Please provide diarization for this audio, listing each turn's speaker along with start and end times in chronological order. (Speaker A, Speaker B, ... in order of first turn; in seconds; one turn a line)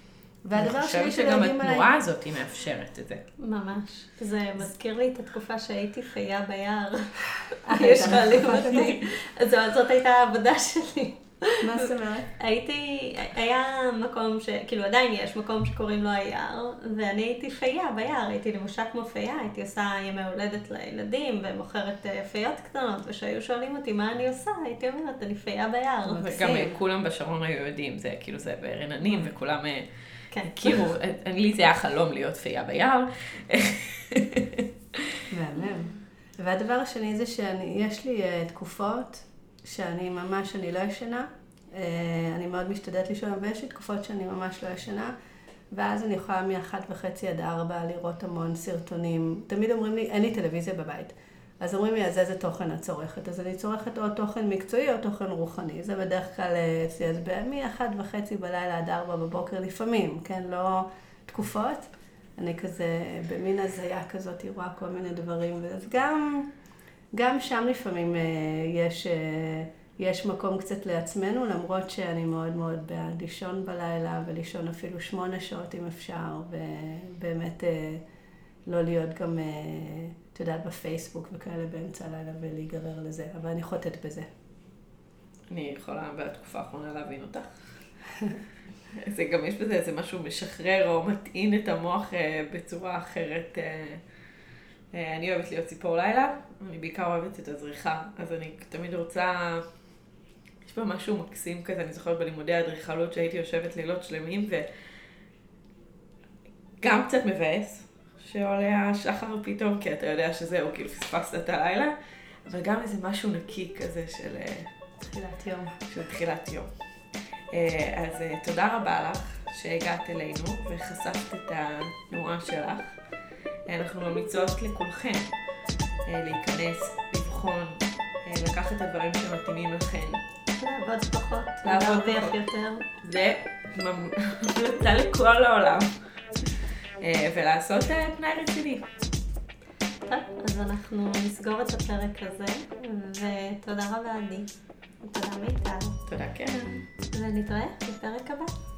Speaker A: 0.4-1.9
Speaker B: 0.6-3.2
Speaker C: 3.4-26.7
Speaker A: 7.7-9.0
Speaker A: 11.6-12.3
Speaker A: 26.1-26.6
Speaker B: 26.2-29.9
Speaker C: 30.3-30.8
Speaker B: 30.4-35.1
Speaker A: 35.3-45.1
Speaker A: 45.7-66.5
Speaker A: 67.1-78.0
Speaker A: 78.7-84.3
Speaker B: 85.5-87.5
Speaker B: 88.9-94.0
Speaker B: 94.9-99.6
Speaker B: 100.6-104.7
Speaker B: 106.8-111.9
Speaker B: 112.5-114.7
Speaker A: 115.0-115.8
Speaker B: 115.8-116.7
Speaker B: 117.5-122.9
Speaker B: 123.7-125.3
Speaker B: 126.0-130.2
Speaker C: 130.6-132.8
Speaker B: 131.6-132.4
Speaker B: 133.0-135.9
Speaker B: 137.0-138.8
Speaker C: 140.1-144.5
Speaker C: 145.0-146.0
Speaker B: 146.1-146.8
Speaker C: 147.1-148.5